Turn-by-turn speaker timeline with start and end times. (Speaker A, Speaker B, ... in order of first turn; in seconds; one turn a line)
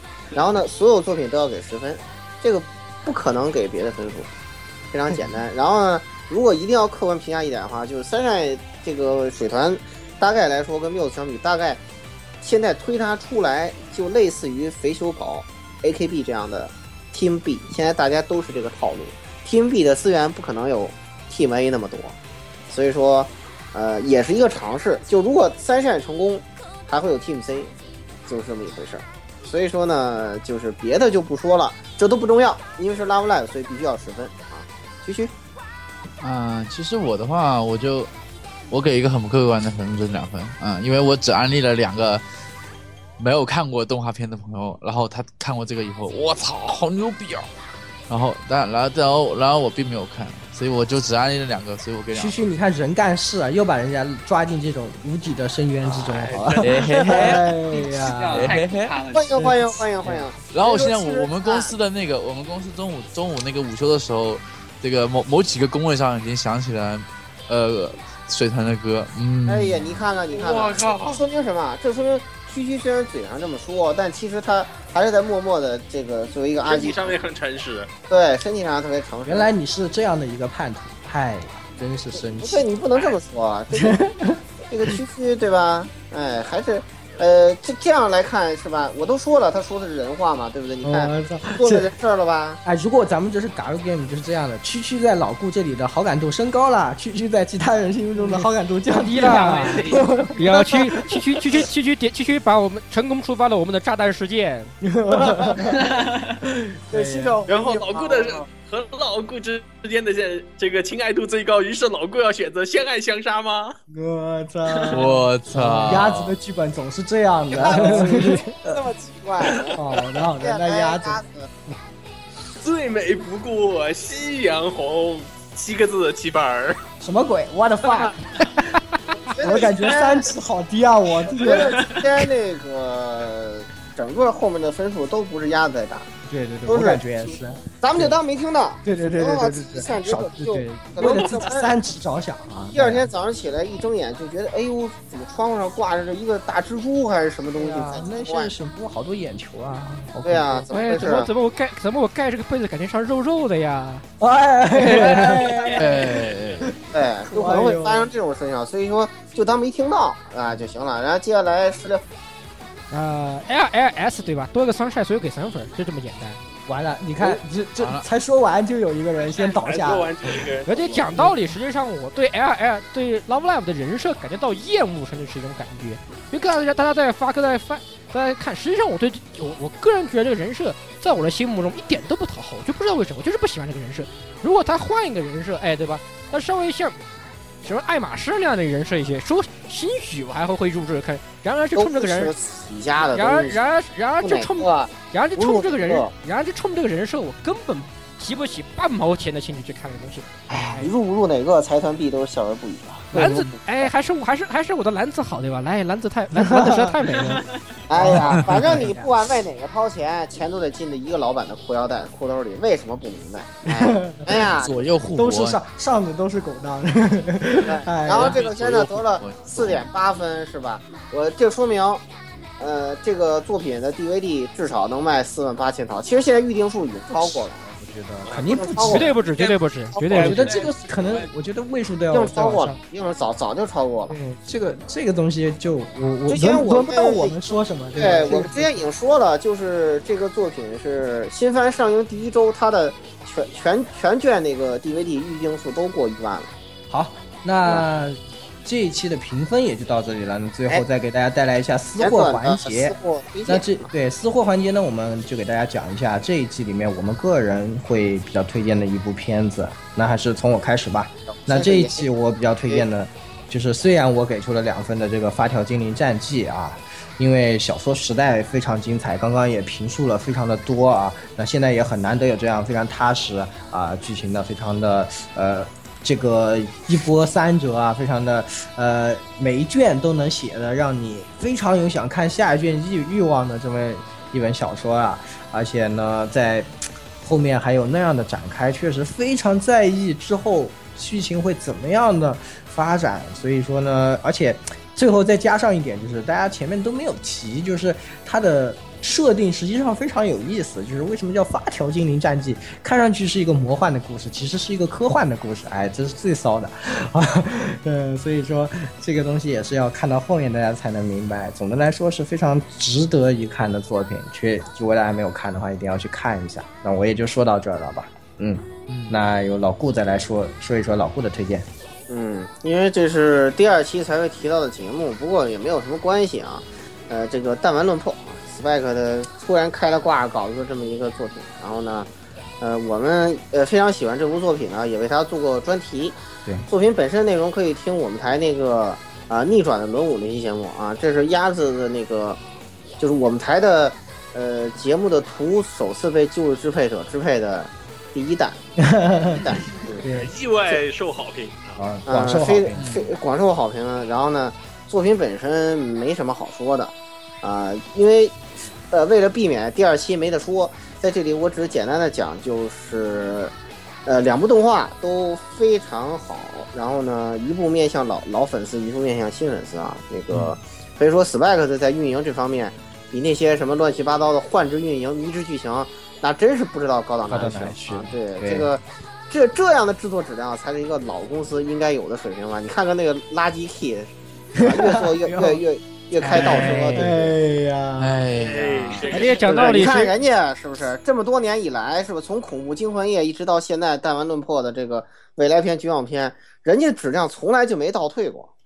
Speaker A: 0.3-4.3
Speaker A: 4.9-11.8
Speaker A: 12.4-22.1
Speaker A: 22.7-27.7
Speaker A: 28.3-35.3
Speaker B: 36.2-38.1
Speaker B: 38.7-42.2
Speaker B: 43.2-47.5
Speaker B: 48.1-52.3
Speaker C: 52.1-58.6
Speaker D: 56.0-56.6
Speaker B: 56.6-57.5
Speaker E: 57.6-59.4
Speaker B: 58.3-58.9
Speaker A: 59.1-61.7
Speaker C: 59.4-60.2
Speaker B: 60.5-70.0
Speaker A: 69.5-77.2
Speaker D: 70.3-71.2
Speaker D: 76.6-77.9
Speaker A: 78.1-79.5
Speaker C: 79.2-82.7
Speaker A: 82.2-84.0
Speaker C: 83.7-84.9
Speaker A: 84.7-92.6
Speaker C: 90.8-91.9
Speaker C: 92.6-100.9
Speaker F: 98.2-104.7
Speaker E: 99.2-100.1
Speaker C: 104.8-107.5
Speaker A: 106.9-108.4
Speaker D: 107.5-113.8
Speaker C: 113.9-118.8
Speaker B: 114.9-116.3
Speaker A: 117.5-119.8
Speaker C: 119.7-121.2
Speaker A: 120.4-121.5
Speaker D: 122.5-126.8
Speaker C: 127.0-128.2
Speaker A: 129.2-130.3
Speaker C: 129.4-131.9
Speaker A: 131.4-136.1
Speaker D: 131.4-132.0
Speaker C: 136.3-138.2
Speaker A: 136.7-141.7
Speaker C: 138.8-143.1
Speaker D: 141.0-141.4
Speaker A: 142.7-148.5
Speaker C: 147.5-150.7
Speaker A: 150.2-151.3
Speaker F: 150.7-154.0
Speaker C: 154.2-156.8
Speaker B: 154.8-155.2
Speaker D: 155.4-155.8
Speaker B: 155.8-156.7
Speaker A: 156.9-162.0
Speaker C: 157.3-158.1
Speaker F: 162.9-166.4
Speaker C: 166.7-170.5
Speaker B: 167.8-168.1
Speaker D: 169.2-171.2
Speaker F: 170.7-187.0
Speaker F: 187.6-192.3
Speaker A: 191.8-193.6
Speaker F: 193.1-200.5
Speaker A: 194.2-196.1
Speaker C: 200.5-200.9
Speaker A: 200.6-203.9
Speaker F: 203.1-207.4
Speaker C: 206.3-207.2
Speaker A: 207.9-214.8
Speaker C: 207.9-209.1
Speaker C: 213.7-214.4
Speaker B: 214.4-215.6
Speaker C: 215.1-218.4
Speaker A: 217.6-222.0
Speaker B: 218.1-219.9
Speaker A: 222.6-227.6
Speaker C: 227.1-229.1
Speaker D: 228.2-228.6
Speaker A: 228.4-229.2
Speaker F: 228.8-230.5
Speaker A: 229.9-230.3
Speaker D: 230.1-231.3
Speaker C: 230.1-232.8
Speaker A: 232.1-234.2
Speaker C: 234.1-238.8
Speaker A: 236.3-246.5
Speaker C: 246.9-321.7
Speaker A: 252.0-253.9
Speaker A: 261.3-262.1
Speaker B: 318.9-319.2
Speaker A: 322.1-332.1
Speaker A: 332.6-342.4
Speaker A: 343.0-348.6
Speaker C: 348.8-350.3
Speaker A: 349.3-350.0
Speaker D: 350.0-351.8
Speaker C: 351.8-352.9
Speaker A: 352.1-363.5
Speaker B: 352.8-353.1
Speaker A: 364.1-384.1
Speaker C: 370.3-370.6
Speaker C: 377.2-378.7
Speaker C: 384.6-385.6
Speaker A: 384.6-387.3
Speaker C: 386.2-388.2
Speaker B: 388.0-389.3
Speaker D: 388.3-390.1
Speaker F: 389.1-390.1
Speaker A: 389.4-398.5